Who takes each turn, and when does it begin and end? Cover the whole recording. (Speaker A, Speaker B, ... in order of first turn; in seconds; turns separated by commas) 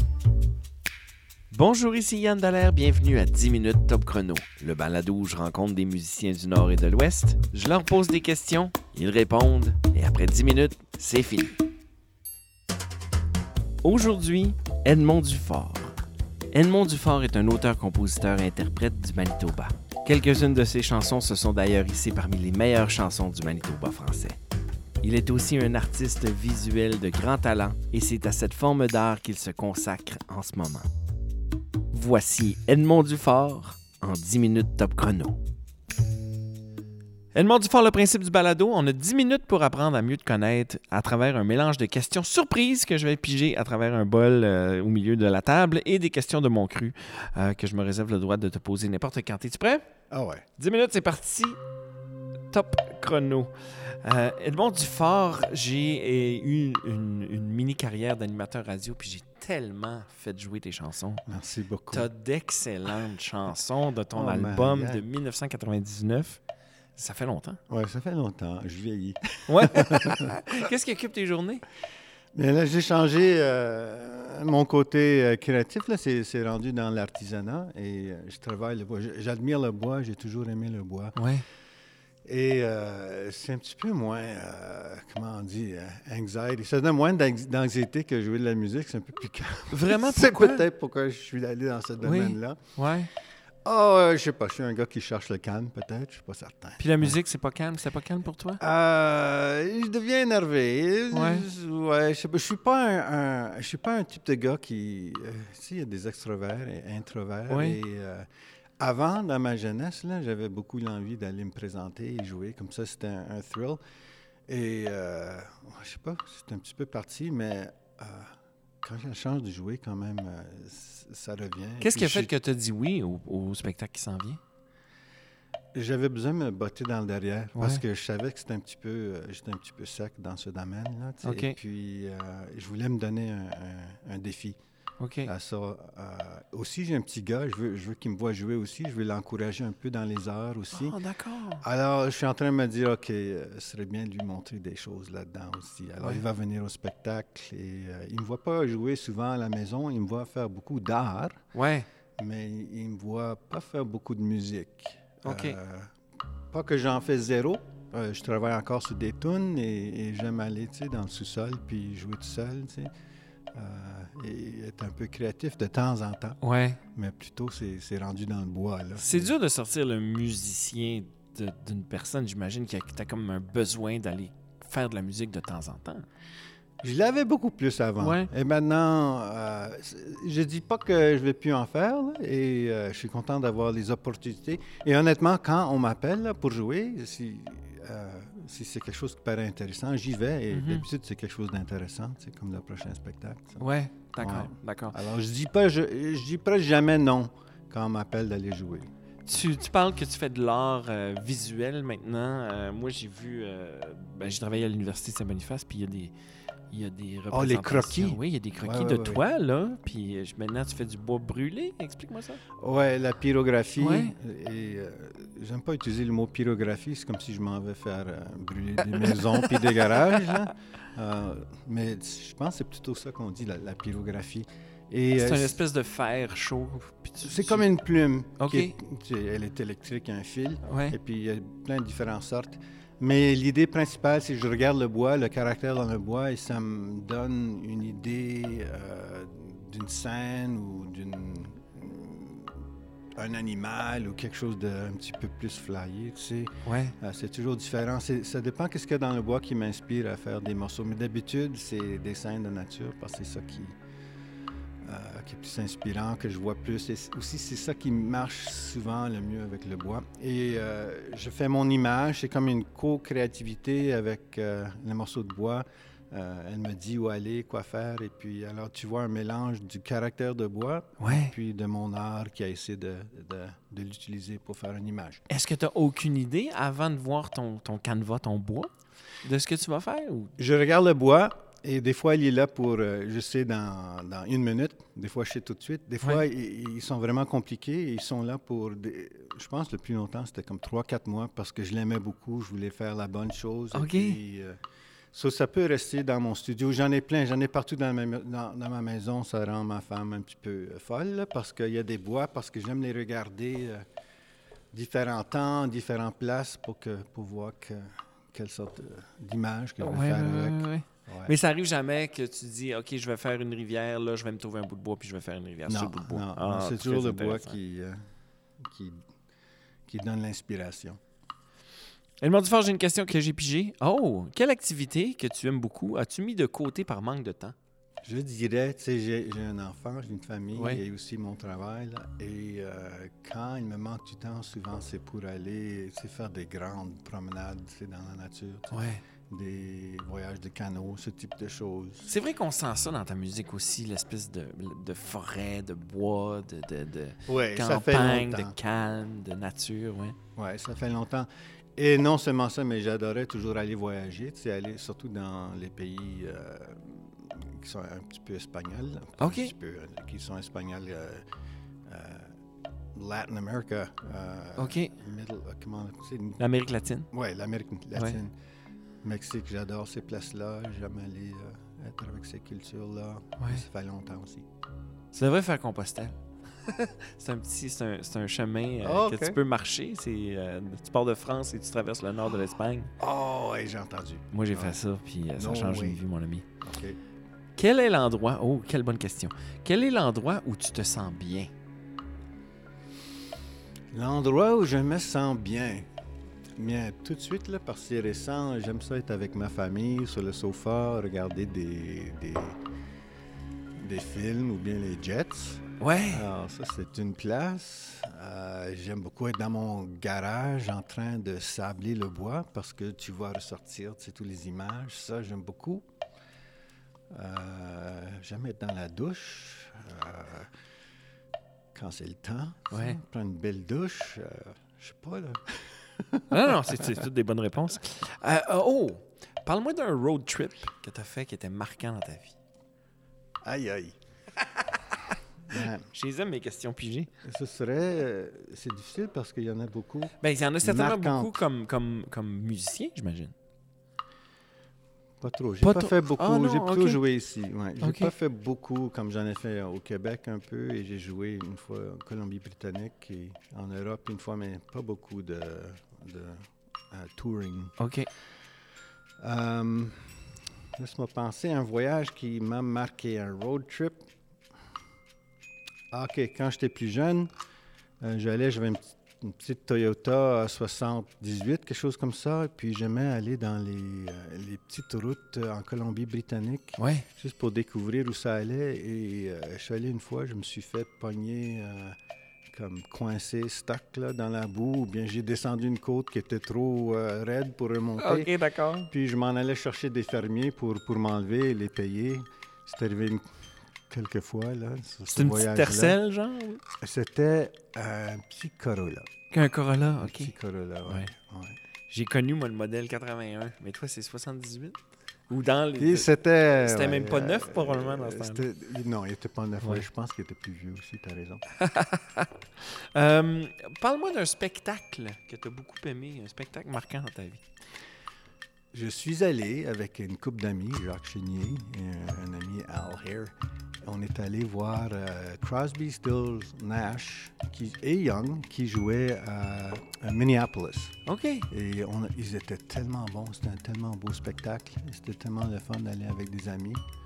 Speaker A: 1.5-11.6, Speaker A: 13.8-16.0, Speaker A: 16.5-24.4, Speaker A: 25.0-30.9, Speaker A: 31.9-35.4, Speaker A: 37.3-49.9, Speaker B: 50.1-50.5, Speaker A: 50.6-51.6, Speaker A: 52.5-61.2, Speaker B: 61.3-62.1, Speaker A: 61.9-66.4, Speaker B: 64.1-65.0, Speaker A: 67.0-67.6, Speaker B: 67.7-70.3, Speaker A: 69.5-71.7, Speaker B: 72.3-81.2, Speaker A: 81.2-81.4, Speaker B: 82.2-92.7, Speaker A: 89.7-90.6, Speaker A: 92.0-93.1, Speaker B: 93.7-97.2, Speaker A: 96.8-98.6, Speaker B: 98.6-108.3, Speaker A: 101.1-101.5, Speaker A: 107.5-107.8, Speaker B: 108.8-113.8, Speaker B: 114.5-122.3, Speaker A: 121.8-124.4, Speaker B: 125.7-134.6, Speaker A: 127.5-127.8, Speaker A: 131.2-131.6, Speaker A: 135.0-135.3, Speaker B: 135.2-141.0, Speaker A: 140.7-141.6, Speaker B: 141.6-151.5, Speaker A: 151.5-151.9, Speaker B: 152.2-155.9, Speaker A: 155.2-155.6, Speaker B: 156.5-162.9, Speaker B: 163.5-166.4, Speaker A: 166.4-166.8, Speaker B: 166.9-169.3, Speaker A: 169.0-176.1, Speaker B: 176.8-198.9, Speaker A: 178.0-178.3, Speaker A: 190.5-190.9, Speaker A: 193.6-195.0, Speaker A: 199.3-206.1, Speaker A: 206.7-212.4, Speaker B: 207.3-209.2, Speaker B: 212.6-225.6, Speaker A: 213.8-214.2, Speaker A: 219.0-220.3, Speaker A: 225.2-227.7, Speaker B: 227.2-242.6, Speaker A: 228.4-228.8, Speaker A: 230.7-231.0, Speaker B: 243.2-253.8, Speaker A: 246.7-247.0, Speaker B: 254.8-275.2, Speaker A: 271.0-271.4, Speaker A: 275.3-278.7, Speaker A: 279.2-280.3, Speaker B: 280.4-294.6, Speaker A: 293.7-294.2, Speaker B: 295.1-303.9, Speaker B: 304.7-311.4, Speaker A: 309.8-317.6, Speaker B: 315.7-318.0, Speaker B: 318.6-319.0, Speaker B: 319.9-321.0, Speaker A: 322.2-327.6, Speaker B: 328.0-342.1, Speaker A: 330.6-330.8, Speaker A: 338.7-339.0, Speaker A: 342.1-350.2, Speaker B: 347.3-348.6, Speaker B: 350.4-361.2, Speaker A: 359.2-359.5, Speaker B: 361.9-362.4, Speaker B: 362.9-366.4, Speaker A: 364.6-364.9, Speaker A: 366.4-367.1, Speaker B: 367.1-368.3, Speaker B: 369.0-374.5, Speaker A: 373.4-373.6, Speaker A: 375.1-376.1, Speaker A: 376.6-382.9, Speaker B: 378.8-379.4, Speaker B: 383.0-384.8, Speaker A: 384.3-386.5, Speaker B: 385.4-386.0, Speaker B: 386.6-387.0, Speaker A: 387.6-391.5, Speaker B: 393.9-395.9, Speaker B: 396.6-402.6, Speaker B: 403.8-415.8, Speaker A: 405.8-406.3, Speaker B: 417.1-420.5, Speaker B: 421.7-426.5, Speaker A: 422.7-423.0, Speaker A: 426.3-432.4, Speaker B: 433.4-434.0, Speaker B: 435.5-435.9, Speaker A: 435.5-437.1, Speaker B: 437.2-441.4, Speaker A: 440.2-443.3, Speaker B: 445.2-457.8, Speaker A: 445.6-447.0, Speaker A: 447.8-448.1, Speaker A: 457.8-458.1, Speaker B: 459.2-460.1, Speaker B: 460.8-464.0, Speaker B: 465.9-467.3, Speaker B: 468.0-482.0, Speaker A: 476.8-477.1, Speaker B: 482.5-488.3, Speaker A: 488.0-488.9, Speaker B: 488.9-493.2, Speaker B: 493.9-496.0, Speaker A: 495.1-496.6, Speaker B: 496.8-499.1, Speaker A: 499.3-500.4, Speaker B: 500.0-501.6, Speaker A: 501.9-508.5, Speaker B: 505.8-511.4, Speaker A: 511.6-517.4, Speaker B: 518.7-531.0, Speaker A: 531.1-531.5, Speaker B: 531.5-536.8